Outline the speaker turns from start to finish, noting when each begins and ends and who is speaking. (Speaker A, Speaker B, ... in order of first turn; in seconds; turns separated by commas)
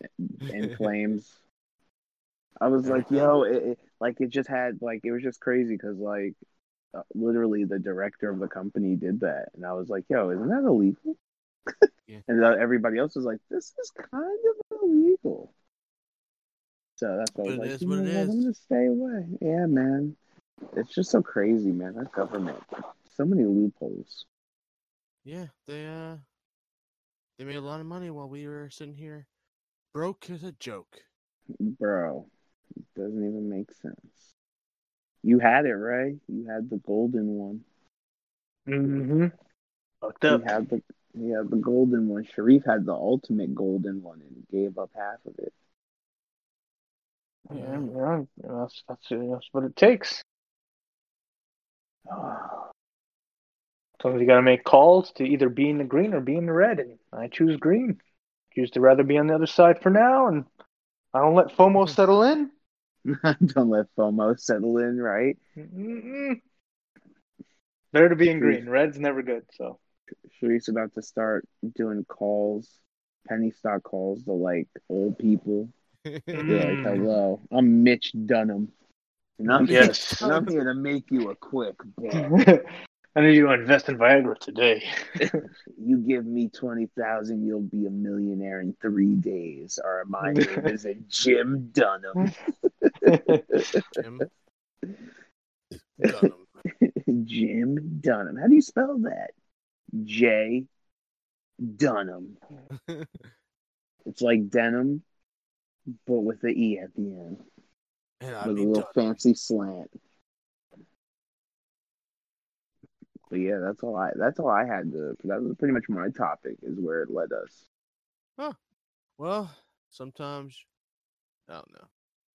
Speaker A: 0.3-1.4, Speaker B: 0.5-0.8, Speaker A: 2.6-6.4, Speaker B: 2.8-3.3, Speaker A: 6.9-11.2, Speaker A: 11.7-15.5, Speaker A: 17.0-20.2, Speaker B: 17.4-18.5, Speaker A: 20.7-24.2, Speaker B: 25.2-26.2, Speaker B: 27.4-29.3, Speaker B: 29.9-31.1, Speaker A: 31.6-32.3, Speaker A: 32.9-34.3, Speaker A: 35.2-37.6, Speaker C: 38.7-39.3, Speaker C: 40.0-40.5, Speaker A: 40.3-45.5, Speaker C: 47.5-50.2, Speaker B: 47.5-47.9, Speaker C: 52.2-52.6, Speaker C: 54.0-58.0, Speaker C: 58.5-60.5, Speaker C: 61.1-62.5, Speaker A: 63.0-65.4, Speaker C: 65.6-66.4, Speaker C: 67.9-69.8, Speaker A: 68.4-68.6, Speaker A: 70.3-75.7, Speaker B: 76.0-77.0, Speaker C: 76.3-77.1, Speaker A: 76.5-78.7, Speaker A: 79.4-82.3, Speaker B: 79.5-80.3, Speaker C: 79.6-80.3, Speaker C: 82.1-85.4, Speaker A: 85.2-93.6, Speaker C: 90.2-90.7, Speaker C: 93.0-93.8, Speaker B: 93.9-94.3, Speaker B: 95.9-96.5, Speaker A: 96.0-99.3, Speaker A: 99.9-100.7, Speaker A: 101.6-102.4, Speaker B: 102.7-103.3, Speaker A: 104.0-105.0, Speaker A: 105.9-107.4, Speaker B: 108.2-108.9, Speaker A: 108.4-109.9, Speaker A: 113.3-117.6, Speaker B: 119.2-120.7, Speaker B: 121.5-121.9